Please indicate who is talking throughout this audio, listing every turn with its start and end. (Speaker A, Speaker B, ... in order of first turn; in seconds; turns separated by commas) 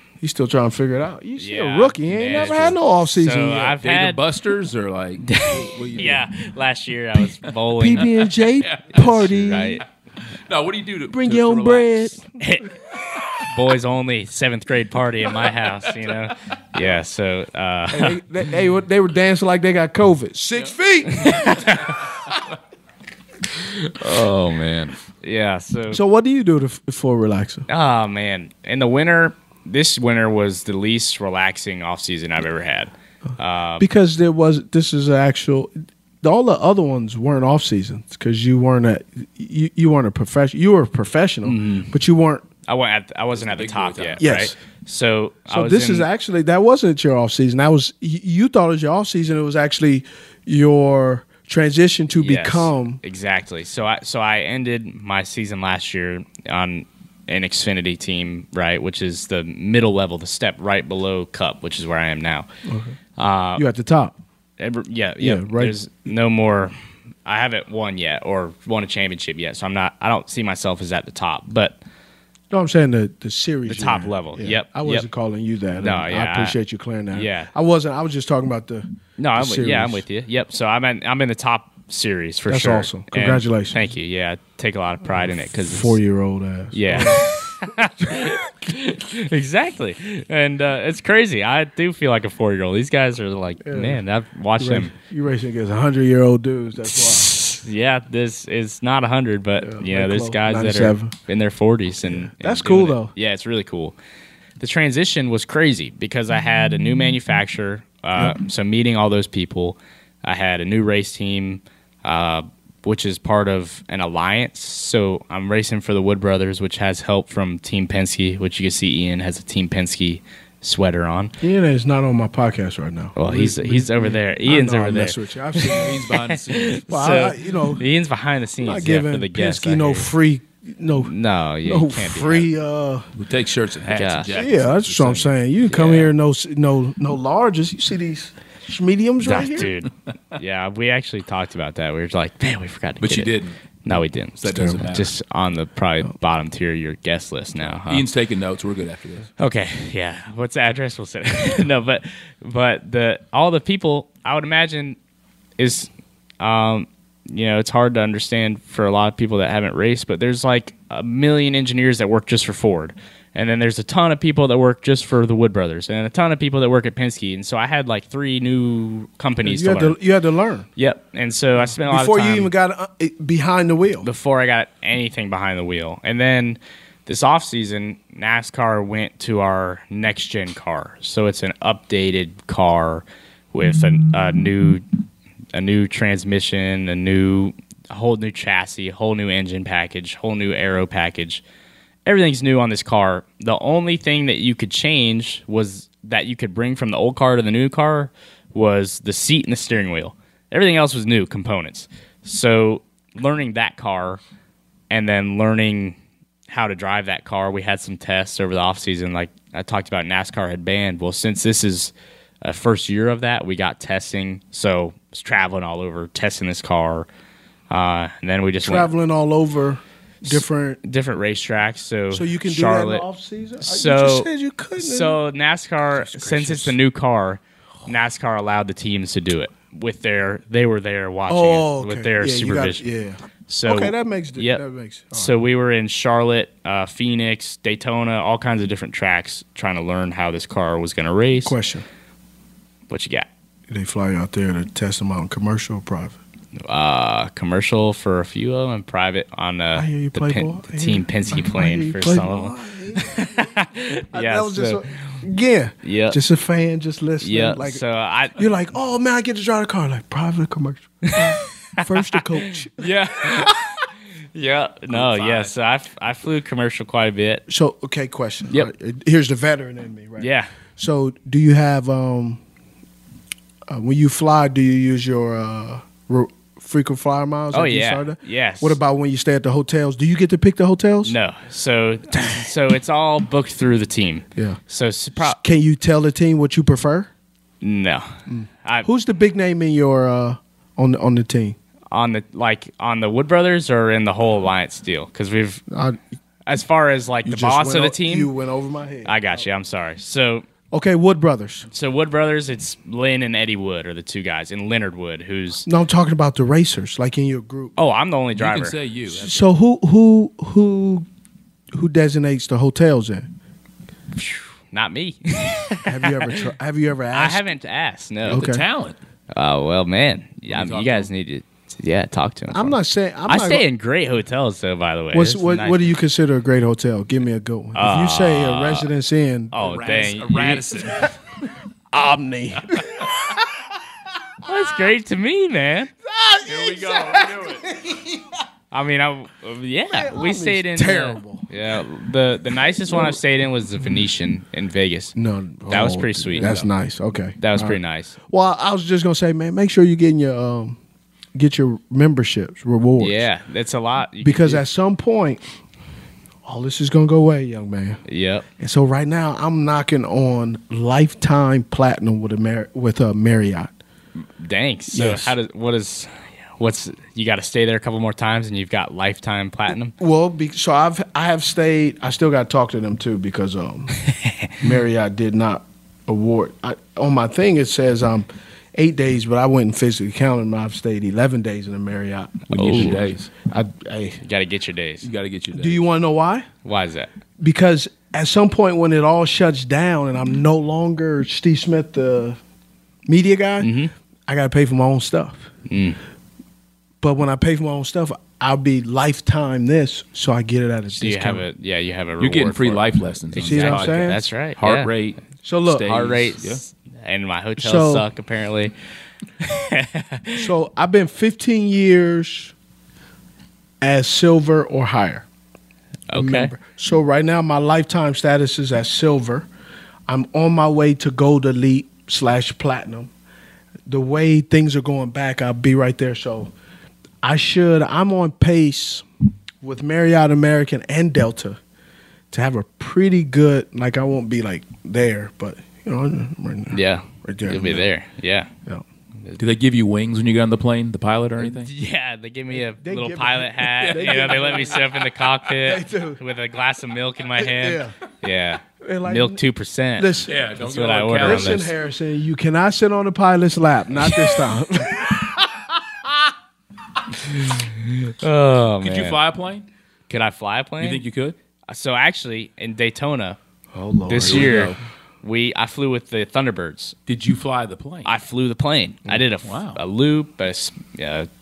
Speaker A: 0.2-3.8, Speaker B: 1.4-4.2, Speaker C: 3.8-6.2, Speaker B: 5.2-8.1, Speaker A: 5.8-6.1, Speaker A: 7.8-9.8, Speaker C: 8.4-9.6, Speaker B: 8.9-9.8, Speaker C: 10.5-12.2, Speaker A: 11.1-12.2, Speaker B: 12.4-12.7, Speaker B: 13.4-18.2, Speaker C: 15.4-16.1, Speaker A: 17.9-21.4, Speaker B: 21.1-22.1, Speaker B: 24.0-26.0, Speaker C: 24.0-24.3, Speaker A: 25.9-27.7, Speaker B: 27.7-33.9, Speaker A: 33.8-42.4, Speaker B: 41.4-41.9, Speaker B: 42.7-46.1, Speaker C: 43.4-44.3, Speaker A: 44.2-44.5, Speaker A: 45.5-53.0, Speaker B: 52.2-62.5, Speaker A: 62.6-63.0, Speaker B: 63.2-63.6, Speaker A: 63.5-64.2, Speaker B: 64.6-66.7, Speaker A: 65.2-65.8, Speaker B: 67.2-71.8, Speaker A: 72.5-80.0, Speaker B: 73.7-75.0, Speaker B: 75.8-76.6, Speaker B: 77.1-77.5, Speaker B: 79.2-86.0, Speaker A: 82.5-83.8, Speaker A: 85.2-87.3, Speaker B: 86.7-94.9, Speaker A: 93.6-94.0, Speaker A: 94.6-97.3, Speaker B: 96.9-103.9, Speaker A: 99.6-101.1, Speaker A: 102.0-103.1, Speaker B: 104.6-121.3, Speaker A: 121.4-126.0, Speaker B: 123.2-130.1, Speaker C: 125.8-127.2, Speaker A: 126.9-127.8, Speaker A: 128.6-131.1, Speaker B: 131.0-132.5, Speaker A: 131.6-133.1, Speaker C: 133.2-135.3, Speaker B: 133.9-134.3, Speaker A: 134.3-139.7, Speaker B: 135.7-136.1, Speaker B: 139.2-143.3, Speaker C: 143.0-143.6, Speaker B: 143.9-148.1, Speaker C: 144.4-145.1, Speaker A: 144.5-144.8, Speaker C: 147.9-149.3, Speaker B: 149.4-155.0, Speaker B: 155.6-155.9, Speaker B: 156.4-170.0, Speaker A: 169.4-170.7, Speaker B: 170.8-172.5, Speaker A: 171.6-174.1, Speaker B: 174.0-184.8, Speaker B: 185.5-191.4, Speaker B: 192.1-204.2, Speaker B: 204.9-206.0, Speaker B: 206.5-217.1, Speaker B: 217.7-218.9, Speaker A: 218.6-220.8, Speaker B: 220.2-223.1, Speaker A: 222.1-225.2, Speaker B: 223.6-232.8, Speaker A: 225.9-226.8, Speaker A: 231.3-235.3, Speaker B: 233.5-234.6, Speaker B: 235.1-241.6, Speaker A: 241.4-241.9, Speaker B: 242.9-243.3, Speaker A: 243.7-246.2, Speaker B: 246.7-255.1, Speaker A: 249.7-253.5, Speaker A: 254.1-257.8, Speaker B: 255.8-256.2, Speaker B: 257.2-258.4, Speaker A: 258.4-262.7, Speaker B: 261.1-263.6, Speaker B: 264.3-267.4, Speaker C: 264.9-265.5, Speaker A: 267.5-272.4, Speaker B: 270.2-270.5, Speaker A: 273.7-281.1, Speaker B: 277.5-278.8, Speaker B: 281.0-285.4, Speaker A: 282.1-282.5, Speaker A: 285.2-287.1, Speaker B: 287.6-288.9, Speaker A: 288.3-291.6, Speaker B: 291.9-295.6, Speaker A: 295.7-296.0, Speaker B: 296.5-298.3, Speaker A: 297.2-299.4, Speaker B: 299.1-300.4, Speaker A: 300.7-301.7, Speaker B: 301.7-305.6, Speaker A: 305.6-307.7, Speaker B: 307.8-308.7, Speaker C: 308.4-309.4, Speaker A: 309.1-311.1, Speaker A: 311.7-313.3, Speaker B: 314.1-316.4, Speaker A: 315.9-317.5, Speaker B: 317.1-318.4, Speaker C: 318.3-319.0, Speaker A: 318.3-318.6, Speaker B: 319.3-322.8, Speaker C: 320.5-321.1, Speaker A: 322.5-323.6, Speaker B: 323.3-325.8, Speaker A: 325.1-329.6, Speaker B: 327.8-328.9, Speaker B: 329.5-330.6, Speaker C: 329.6-331.1, Speaker A: 331.9-333.5, Speaker B: 334.4-335.9, Speaker A: 336.0-338.2, Speaker C: 336.4-337.7, Speaker B: 338.7-345.1, Speaker A: 339.9-341.5, Speaker A: 342.9-343.1, Speaker A: 345.1-350.8, Speaker B: 345.7-346.6, Speaker B: 347.4-348.1, Speaker A: 351.3-353.3, Speaker B: 353.0-354.6, Speaker A: 354.2-355.4, Speaker A: 356.4-358.0, Speaker B: 358.1-358.4, Speaker A: 358.6-363.7, Speaker B: 364.4-369.9, Speaker A: 364.9-365.3, Speaker A: 370.0-373.9, Speaker B: 374.1-374.5, Speaker A: 374.6-384.2, Speaker C: 382.5-383.3, Speaker B: 382.5-383.0, Speaker B: 384.2-385.1, Speaker C: 385.0-385.8, Speaker A: 385.5-386.5, Speaker B: 386.6-387.1, Speaker A: 387.4-392.4, Speaker A: 393.1-393.7, Speaker B: 393.6-393.9, Speaker A: 394.3-395.5, Speaker B: 395.7-396.0, Speaker A: 397.0-401.4, Speaker B: 400.9-404.9, Speaker C: 402.2-406.6, Speaker A: 403.4-404.2, Speaker A: 405.4-405.9, Speaker B: 405.8-408.7, Speaker A: 407.6-408.1, Speaker B: 409.4-410.5, Speaker A: 410.4-412.5, Speaker A: 413.8-415.2, Speaker B: 416.1-416.5, Speaker A: 416.1-419.5, Speaker A: 420.1-423.1, Speaker A: 423.9-426.5, Speaker A: 427.2-429.1, Speaker A: 429.6-431.6, Speaker A: 432.3-437.9, Speaker B: 436.7-438.5, Speaker C: 439.4-441.7, Speaker B: 441.6-451.7, Speaker A: 442.5-445.0, Speaker C: 443.8-444.9, Speaker A: 445.6-446.2, Speaker A: 447.4-447.9, Speaker A: 448.8-449.4, Speaker A: 450.0-450.4, Speaker C: 450.3-451.7, Speaker A: 451.2-455.6, Speaker B: 457.3-459.2, Speaker C: 458.8-459.6, Speaker B: 460.1-461.0, Speaker C: 460.8-461.4, Speaker B: 461.7-463.4, Speaker A: 463.7-464.8, Speaker B: 464.1-466.9, Speaker C: 464.2-464.7, Speaker C: 467.1-468.1, Speaker B: 468.1-471.3, Speaker C: 469.4-469.8